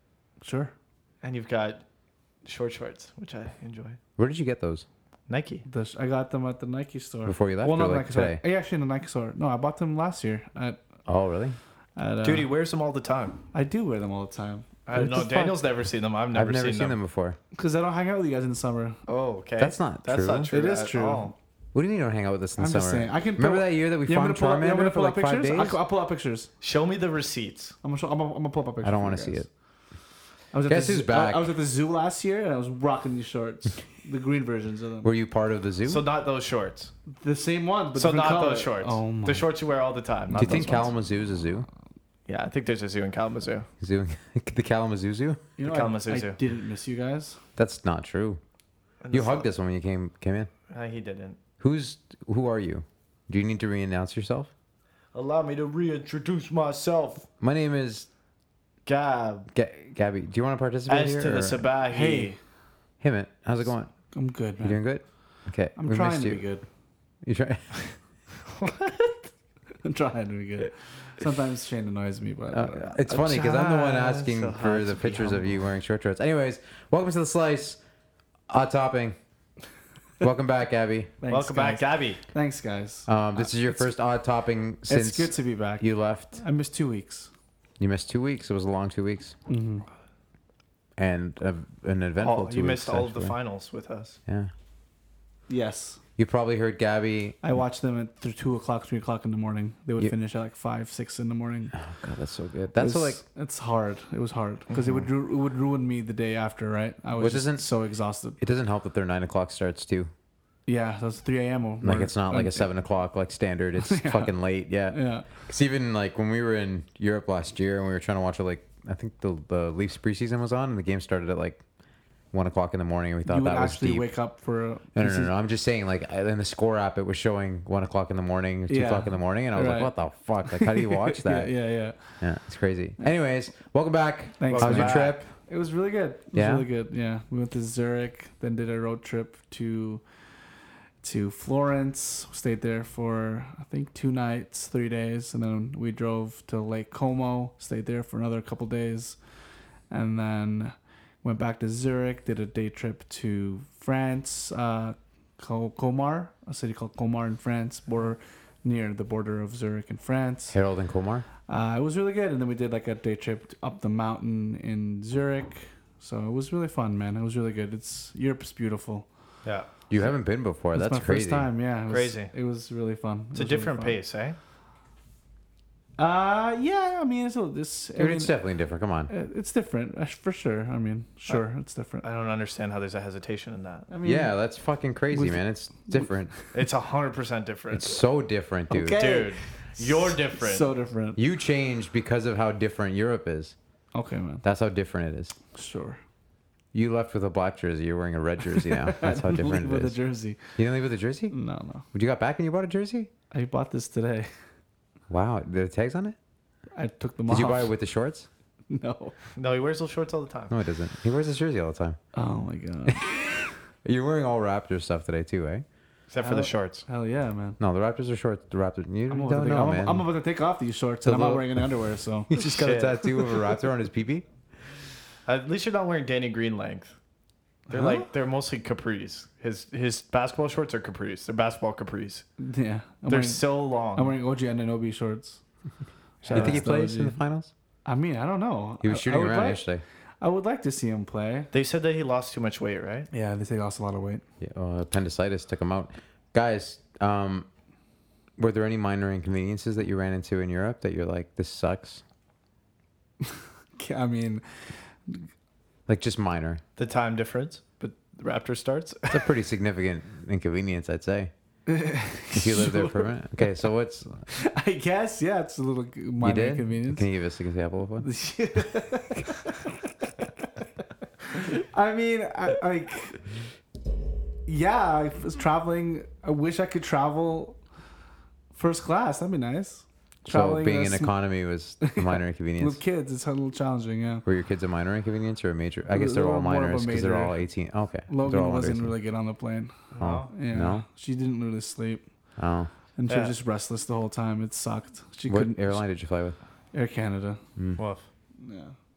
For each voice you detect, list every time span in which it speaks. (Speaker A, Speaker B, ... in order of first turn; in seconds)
Speaker A: 0.4-0.7, 5.6-10.8, 12.0-12.5, 13.5-15.2, 17.5-19.0, 20.5-21.3, 22.6-26.5, 27.8-29.5, 30.5-35.1, 37.1-39.5, 40.3-40.8, 45.6-47.4, 61.9-62.4, 64.1-64.8, 65.8-66.7, 69.8-73.0, 81.2-83.9, 84.9-87.3, 89.5-89.8, 95.5-96.0, 97.4-101.7, 102.8-108.4, 110.7-112.7, 113.8-114.3, 114.9-115.3, 123.3-125.3, 128.7-129.9, 130.4-132.0, 134.4-140.0, 141.0-149.2, 149.9-160.6, 161.5-169.1, 170.7-174.0, 176.0-178.3, 179.1-182.1, 183.9-184.3, 185.1-186.6, 188.7-191.2, 193.9-194.4, 195.5-196.0, 198.5-200.4, 201.3-201.8, 203.3-204.3, 206.8-207.7, 208.7-209.1, 212.2-213.5, 216.2-217.6, 219.1-222.4, 227.7-228.1, 232.4-235.4, 236.2-237.2, 237.9-239.6, 240.2-241.5, 243.1-244.2, 253.8-254.4, 261.7-263.1, 264.3-267.1, 268.0-269.7, 271.3-273.2, 274.4-277.6, 278.6-281.1, 281.8-284.2, 285.9-287.4, 288.1-292.0, 293.0-295.8, 296.7-297.4, 298.4-298.7
Speaker B: 1.2-1.8, 2.5-4.0, 5.3-5.6, 12.2-13.4, 14.8-16.9, 19.1-21.3, 26.6-27.7, 35.9-36.9, 38.0-40.9, 42.3-43.7, 45.6-46.4, 49.0-49.5, 50.7-51.4, 55.1-57.3, 58.9-59.5, 60.9-62.4, 68.5-69.3, 73.1-75.6, 81.3-82.2, 92.2-94.2, 104.7-105.1, 134.5-135.2, 171.9-172.3, 173.3-174.4, 182.0-183.9, 186.5-188.0, 189.0-190.7, 209.4-210.6, 216.1-216.8, 222.4-223.1, 225.2-226.9, 227.7-232.2, 233.1-234.1, 236.2-236.6, 241.5-243.1, 256.8-259.2, 289.9-290.3, 293.1-293.3, 297.8-298.1
Speaker C: 4.2-4.8, 7.2-8.4, 11.1-11.6, 14.9-15.6, 16.3-17.4, 19.6-20.5, 21.7-25.8, 28.8-29.5, 30.7-31.5, 35.0-36.0, 40.3-41.7, 43.8-45.5, 47.6-48.4, 49.1-50.5, 51.6-54.5, 57.4-58.1, 59.5-61.6, 63.0-63.9, 64.6-66.4, 67.2-67.7, 72.5-77.8, 78.5-79.2, 80.2-81.1, 83.1-86.4, 87.8-89.3, 91.0-93.3, 96.2-97.4, 101.8-103.2, 107.2-107.7, 108.4-110.1, 111.8-121.6, 122.3-124.1, 124.9-131.5, 132.2-135.3, 136.3-136.7, 160.5-161.2, 169.9-171.5, 178.0-179.1, 184.0-186.3, 187.7-189.0, 191.2-193.6, 194.4-195.3, 196.7-200.0, 200.6-201.3, 201.9-203.1, 205.1-206.2, 207.3-208.3, 210.5-212.0, 213.8-215.7, 217.6-220.1, 221.1-224.2, 236.3-237.5, 238.8-239.8, 244.4-247.4, 248.4-252.0, 255.9-256.6, 259.1-261.3, 262.3-264.2, 266.2-268.1, 280.2-282.8, 284.2-288.9, 290.0-290.8, 292.4-292.7, 295.3-296.4